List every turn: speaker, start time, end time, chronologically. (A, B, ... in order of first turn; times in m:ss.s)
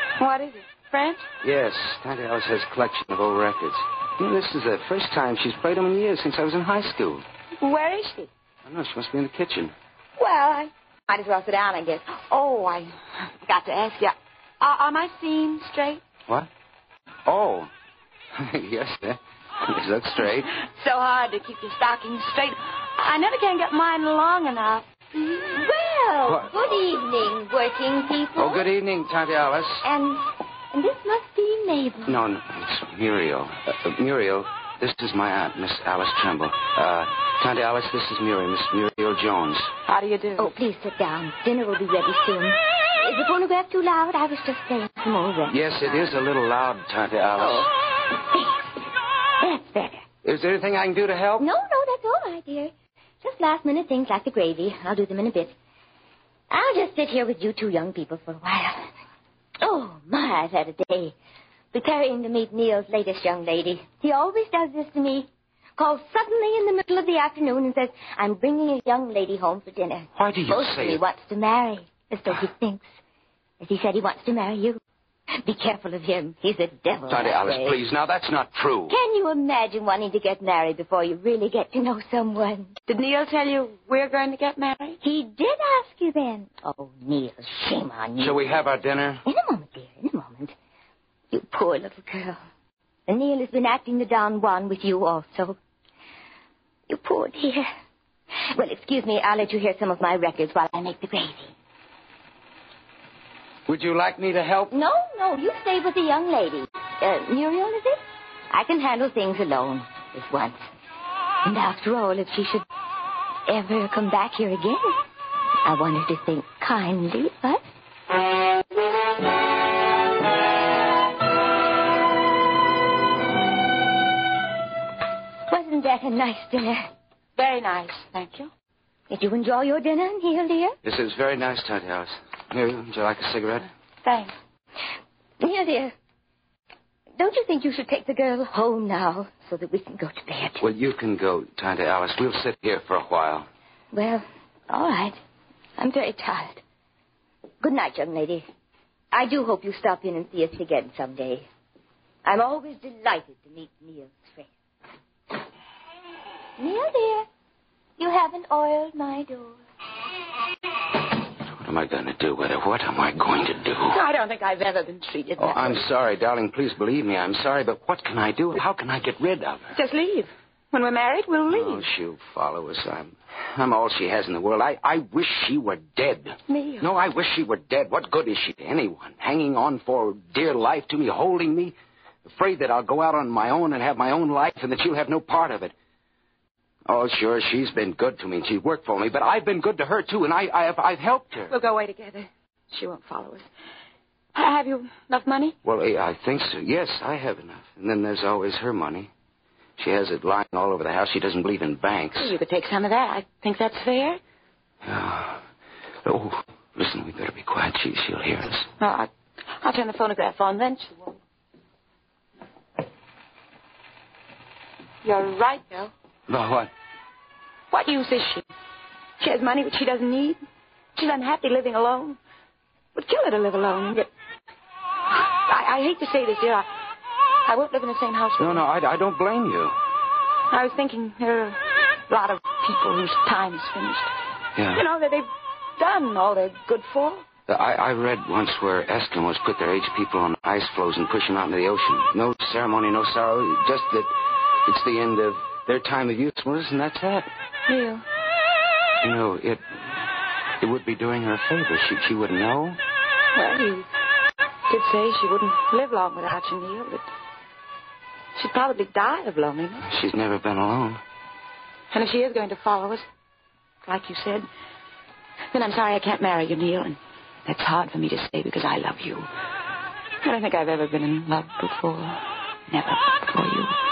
0:00.2-0:01.3 A
0:01.4-0:07.2 B
0:07.6-0:08.3 A
0:08.6-0:09.7 B
0:10.2-0:16.0 A
0:17.2-0:17.7 B
0:18.3-0:20.5 B
0:20.5-0:25.4 A
0:25.5-0:28.6 C
0:26.2-0:26.5 B
0:28.4-0:29.8 B
0:29.8-0:32.2 C
0:32.0-0:39.7 B
0:39.9-0:40.5 A
0:40.4-0:46.1 C
0:45.5-0:47.7 B
0:47.4-0:47.7 C
0:48.2-0:48.6 C
0:49.4-0:50.0 C
0:50.2-0:51.5 B
0:51.4-0:55.5 C
0:56.5-0:58.9 C
0:59.6-1:01.1 C
1:01.7-1:12.9 C
1:10.2-1:11.0 B
1:13.6-1:14.8 C
1:15.4-1:17.8 C
1:17.1-1:18.9 B
1:18.9-1:22.7 C
1:22.9-1:25.0 A
1:25.0-1:28.4 C
1:28.2-1:29.2 B
1:29.2-1:30.5 C
1:31.3-1:32.4 C
1:33.1-1:35.6 C
1:36.9-1:37.7 C
1:38.5-1:41.5 C
1:43.7-1:44.7 B
1:44.7-1:50.6 C
1:51.4-1:52.6 C
1:53.5-1:55.0 C
1:55.6-1:57.6 C
2:05.5-2:06.9 C
2:07.4-2:08.5 A
2:09.1-2:10.8 C
2:10.8-2:13.7 B
2:14.0-2:14.3 A
2:15.4-2:15.9 C
2:17.2-2:20.6 C
2:20.6-2:23.5 B
2:23.9-2:25.2 C
2:25.8-2:26.6 C
2:27.6-2:28.4 C
2:29.1-2:31.4 C
2:32.2-2:34.5 C
2:36.6-2:37.3 C
2:38.0-2:39.6 C
2:41.5-2:44.0 B
2:43.9-2:45.8 A
2:45.4-2:49.7 B
2:49.7-2:51.8 A
2:51.5-3:05.7 B
2:56.5-2:56.9 A
3:06.9-3:11.5 B
3:11.5-3:13.5 A
3:14.3-3:15.5 A
3:15.6-3:19.1 B
3:19.8-3:22.3 B
3:22.2-3:24.2 A
3:24.8-3:25.4 B
3:26.0-3:28.7 B
3:28.8-3:31.2 A
3:35.0-3:35.9 A
3:36.3-3:36.7 B
3:37.7-3:38.4 A
3:39.2-3:40.4 A
3:41.0-3:42.2 A
3:42.9-3:44.1 A
3:45.1-3:46.7 A
3:47.4-3:48.6 A
3:48.4-3:49.7 B
3:50.5-3:54.1 A
3:54.6-3:54.8 B
3:54.7-3:57.2 A
3:57.5-4:07.3 B
4:07.7-4:08.0 A
4:09.0-4:09.8 B
4:10.6-4:12.8 B
4:13.3-4:13.9 A
4:14.7-4:17.0 A
4:18.4-4:19.8 A
4:19.8-4:21.0 B
4:21.9-4:23.0 A
4:23.8-4:24.5 A
4:25.5-4:29.3 A
4:30.2-4:33.8 A